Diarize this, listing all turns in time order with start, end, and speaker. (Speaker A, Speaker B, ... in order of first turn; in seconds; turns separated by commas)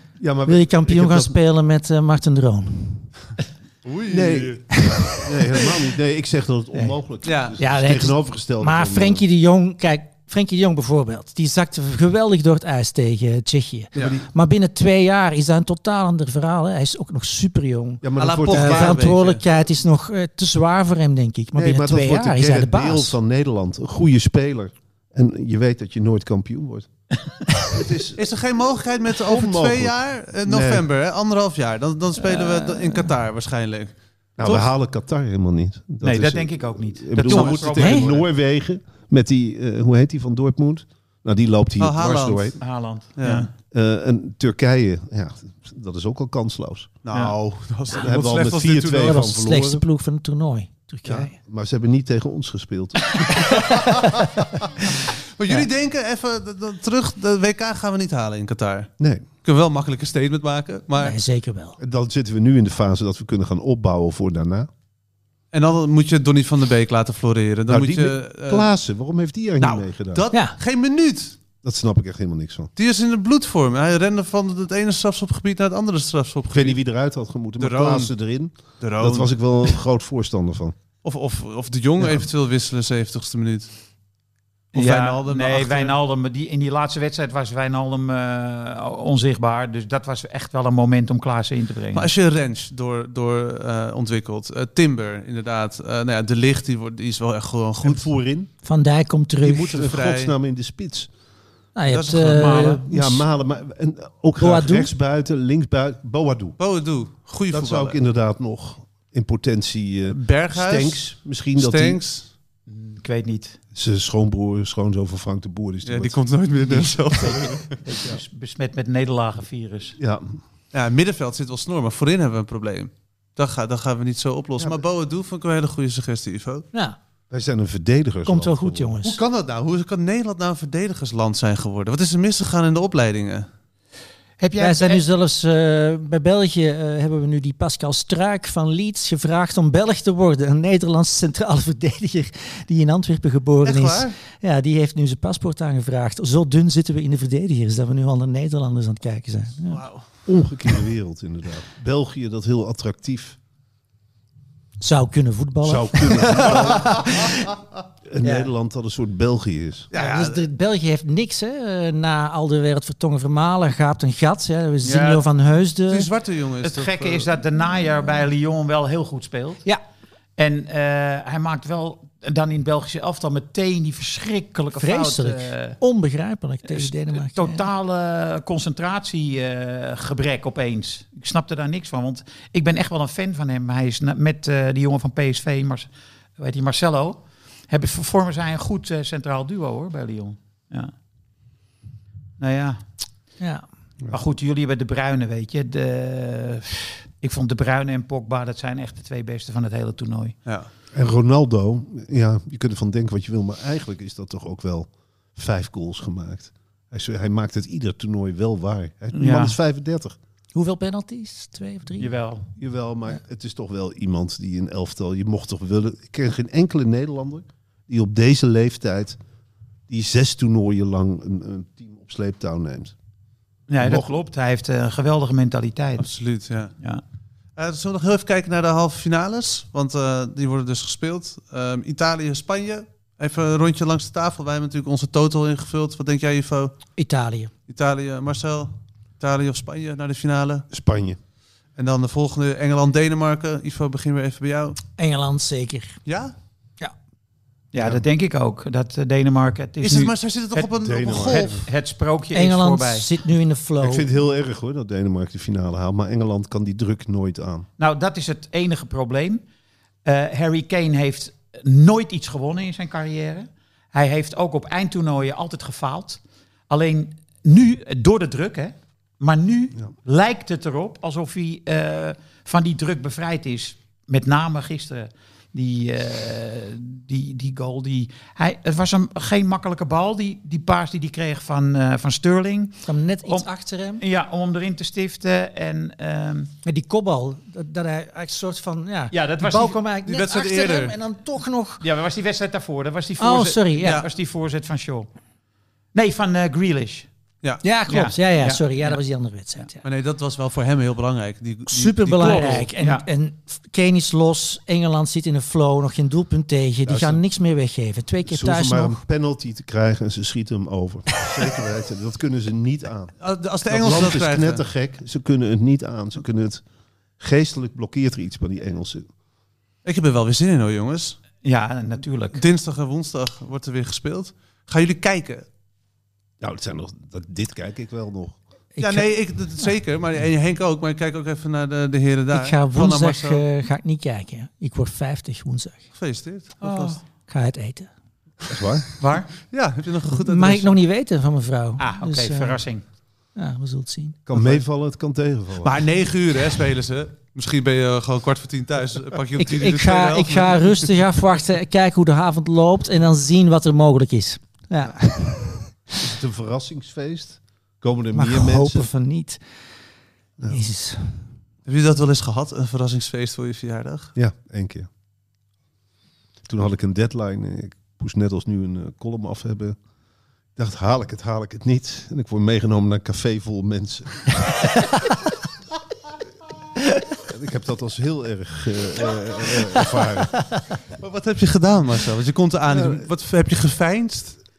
Speaker A: 0.2-1.4, Speaker B: 0.5-3.1, Speaker C: 3.8-4.6, Speaker A: 4.1-9.2, Speaker B: 4.7-5.7, Speaker C: 7.2-7.6, Speaker B: 7.6-23.2, Speaker A: 14.0-14.2, Speaker C: 14.0-14.2, Speaker A: 18.0-19.1, Speaker C: 18.2-19.4, Speaker A: 21.6-26.9, Speaker A: 27.7-28.2, Speaker C: 28.2-33.9, Speaker A: 29.2-30.9, Speaker B: 32.2-33.1, Speaker A: 34.4-42.6, Speaker D: 36.0-38.3, Speaker C: 37.2-38.1, Speaker B: 37.8-38.0, Speaker C: 41.8-42.6, Speaker D: 42.6-43.5, Speaker C: 43.2-43.5, Speaker A: 43.7-47.0, Speaker C: 47.0-49.2, Speaker A: 47.9-49.8, Speaker B: 49.0-51.3, Speaker A: 51.0-53.7, Speaker C: 53.5-54.0, Speaker B: 53.6-54.2, Speaker C: 54.6-58.9, Speaker A: 59.0-59.3, Speaker C: 59.4-61.2, Speaker B: 61.0-61.8, Speaker A: 61.8-64.7, Speaker C: 65.5-68.7, Speaker A: 67.7-70.2, Speaker C: 69.6-71.4, Speaker A: 71.6-72.7, Speaker C: 72.8-76.8, Speaker A: 76.5-80.8, Speaker C: 77.6-78.1, Speaker C: 78.8-79.8, Speaker C: 81.0-83.7, Speaker C: 84.7-86.0, Speaker D: 84.7-92.1, Speaker C: 91.9-98.1, Speaker A: 97.8-98.5, Speaker B: 98.6-99.7, Speaker C: 99.4-100.3, Speaker A: 99.6-101.1, Speaker B: 101.8-103.2, Speaker C: 101.9-102.8, Speaker D: 102.4-102.8, Speaker A: 102.8-106.6, Speaker B: 104.4-104.9, Speaker C: 106.6-108.0, Speaker A: 107.5-112.0, Speaker C: 110.1-112.3, Speaker D: 112.7-113.6, Speaker A: 113.7-116.3, Speaker C: 115.8-117.8, Speaker D: 116.8-120.0, Speaker A: 120.0-120.4, Speaker C: 120.7-126.7, Speaker A: 127.3-128.9, Speaker B: 128.3-129.2, Speaker C: 129.0-133.5, Speaker D: 134.4-135.0, Speaker B: 134.6-149.8, Speaker C: 143.6-144.2, Speaker C: 149.7-150.1, Speaker A: 150.3-153.4, Speaker B: 154.8-157.5, Speaker A: 155.7-157.1, Speaker A: 158.1-159.9, Speaker B: 158.2-158.5, Speaker C: 159.9-160.4, Speaker B: 159.9-166.1, Speaker D: 164.8-165.2, Speaker C: 165.9-167.3, Speaker D: 166.6-169.6, Speaker D: 170.4-175.8, Speaker B: 174.8-177.7, Speaker D: 176.7-190.9, Speaker D: 192.4-192.8, Speaker B: 193.4-193.7, Speaker D: 194.1-200.3, Speaker A: 200.9-210.2, Speaker D: 209.1-209.6, Speaker B: 210.5-212.1, Speaker D: 212.0-212.4, Speaker A: 212.6-219.2, Speaker A: 219.9-222.9, Speaker D: 223.7-226.1, Speaker A: 223.8-224.1, Speaker C: 226.0-226.7, Speaker C: 227.6-236.8, Speaker B: 237.0-237.5, Speaker C: 237.7-240.7, Speaker A: 240.7-241.2, Speaker C: 241.8-244.8, Speaker B: 245.0-246.0, Speaker C: 246.1-246.3, Speaker D: 247.7-253.1, Speaker C: 249.8-251.6, Speaker A: 250.8-251.6, Speaker B: 252.3-254.1, Speaker A: 253.8-257.7, Speaker D: 257.8-259.4, Speaker D: 260.1-283.5, Speaker B: 282.9-284.0, Speaker D: 284.0-286.5, Speaker B: 286.6-291.8, Speaker D: 289.1-289.8, Speaker C: 290.1-291.0, Speaker D: 291.8-295.1, Speaker B: 293.2-294.0, Speaker D: 295.9-297.1, Speaker B: 297.6-299.8, Speaker D: 297.9-299.0, Speaker C: 299.8-302.7, Speaker B: 301.7-309.0, Speaker D: 302.2-303.1, Speaker A: 306.9-307.2, Speaker A: 308.3-313.1, Speaker C: 313.2-314.6, Speaker A: 313.7-316.6, Speaker A: 317.2-319.1, Speaker C: 319.9-321.2, Speaker D: 321.4-322.4, Speaker C: 322.4-325.5, Speaker A: 326.4-328.4, Speaker B: 328.8-329.1, Speaker C: 328.8-333.4, Speaker B: 332.3-335.9, Speaker C: 335.9-337.0, Speaker D: 336.6-337.0, Speaker B: 337.3-337.9, Speaker A: 338.5-338.9, Speaker D: 339.0-339.3, Speaker C: 339.5-340.8, Speaker B: 340.1-342.6, Speaker D: 341.8-342.8, Speaker B: 343.4-344.2, Speaker A: 344.3-345.8, Speaker C: 344.3-344.6, Speaker C: 345.6-350.9, Speaker B: 349.4-355.7, Speaker A: 356.0-358.9, Speaker B: 358.1-359.4, Speaker B: 360.5-361.3, Speaker C: 361.6-364.1, Speaker A: 364.1-364.9, Speaker A: 366.4-369.8, Speaker A: 370.6-374.5, Speaker A: 377.3-380.3, Speaker C: 381.0-384.4, Speaker A: 382.7-383.1